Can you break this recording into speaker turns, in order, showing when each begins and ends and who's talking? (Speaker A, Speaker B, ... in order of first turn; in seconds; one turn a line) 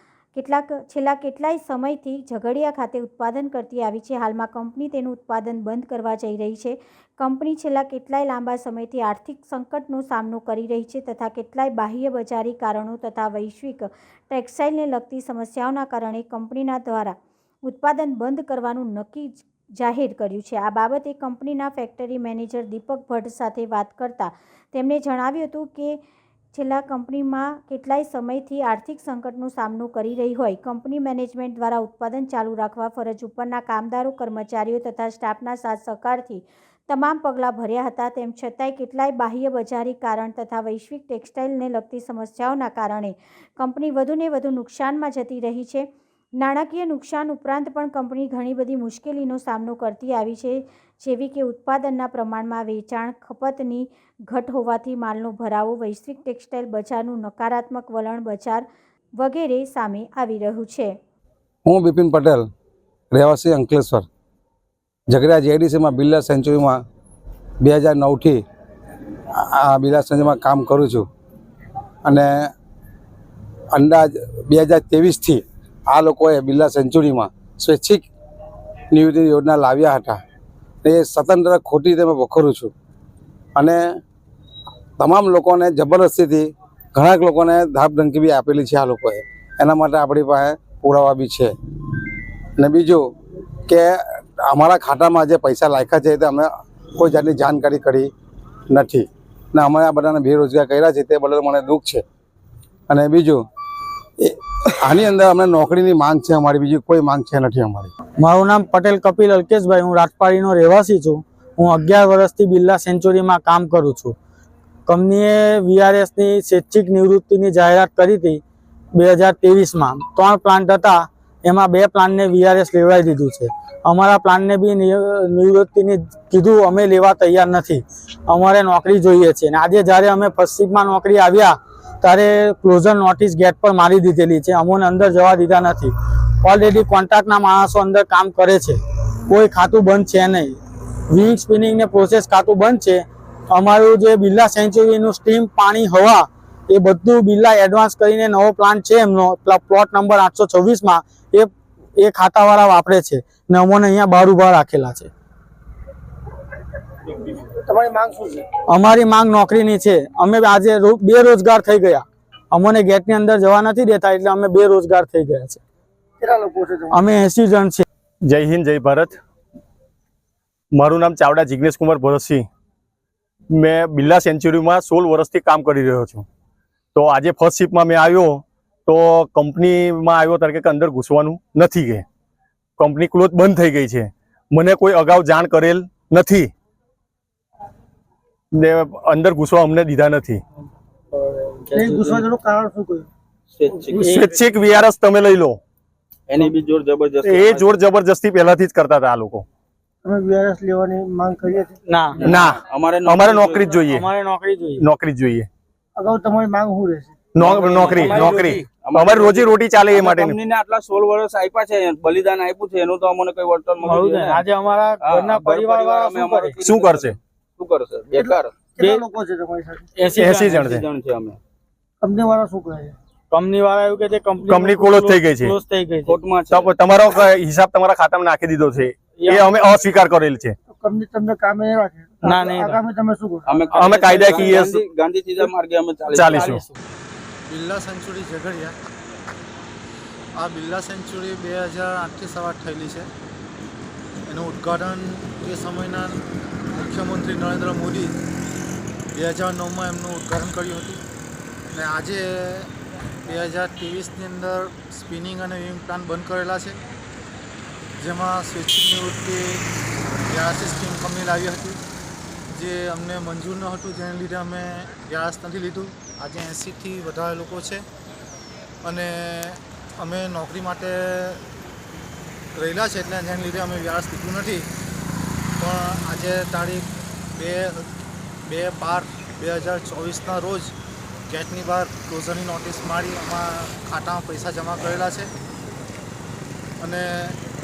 Speaker A: 0.3-26.0
Speaker A: 26.5-45.9
Speaker A: 46.4-58.6
Speaker A: 59.2-61.0
Speaker B: 61.7-62.5
Speaker B: 63.1-64.1
Speaker B: 65.1-66.8
Speaker B: 67.6-68.4
Speaker B: 69.4-71.1
Speaker B: 72.0-72.5
Speaker B: 73.7-78.1
Speaker B: 78.9-80.2
Speaker B: 80.8-82.7
Speaker B: 83.5-83.8
Speaker B: 85.0-91.5
Speaker B: 92.6-93.0
Speaker B: 93.7-98.1
Speaker B: 98.7-102.0
Speaker B: 102.9-103.4
Speaker B: 104.2-107.9
Speaker C: 108.2-114.1
Speaker C: 114.9-118.4
Speaker C: 119.0-135.9
Speaker C: 136.4-138.8
Speaker C: 139.3-140.6
Speaker C: 141.1-155.1
Speaker D: 157.6-158.4
Speaker C: 158.7-165.6
Speaker D: 166.2-166.9
Speaker C: 166.9-167.8
Speaker E: 168.2-169.2
Speaker E: 170.7-172.4
Speaker E: 173.5-176.2
Speaker E: 176.9-182.0
Speaker E: 182.8-186.5
Speaker E: 188.5-190.4
Speaker C: 191.2-192.0
Speaker D: 191.7-193.1
Speaker F: 192.0-192.2
Speaker F: 193.5-194.2
Speaker E: 194.1-195.6
Speaker F: 196.3-197.8
Speaker E: 197.2-199.4
Speaker D: 200.0-201.8
Speaker C: 201.9-202.2
Speaker F: 202.2-203.8
Speaker E: 202.2-204.1
Speaker C: 203.9-204.8
Speaker E: 204.8-205.5
Speaker D: 205.9-207.1
Speaker E: 207.3-210.4
Speaker F: 207.4-214.4
Speaker C: 207.9-208.6
Speaker C: 213.8-216.6
Speaker F: 215.0-218.5
Speaker E: 216.6-217.2
Speaker D: 218.1-219.9
Speaker C: 219.9-220.6
Speaker E: 220.2-220.8
Speaker F: 220.3-221.4
Speaker D: 222.0-222.9
Speaker C: 223.3-226.2
Speaker E: 224.5-225.6
Speaker F: 226.1-226.8
Speaker E: 226.5-230.6
Speaker D: 230.7-233.6
Speaker C: 232.2-232.8
Speaker F: 233.4-236.5
Speaker E: 233.7-234.8
Speaker E: 236.1-236.6
Speaker C: 236.3-236.7
Speaker G: 237.5-238.7
Speaker G: 240.3-243.1
Speaker G: 244.2-246.2
Speaker G: 246.7-248.2
Speaker G: 249.1-251.0
Speaker G: 251.7-252.7
Speaker G: 253.2-256.8
Speaker G: 258.0-259.6
Speaker G: 260.3-261.8
Speaker G: 262.5-267.8
Speaker G: 268.8-271.4
Speaker G: 272.6-274.7
Speaker G: 275.6-277.8
Speaker G: 278.5-280.7
Speaker G: 281.3-285.3
Speaker G: 286.8-287.4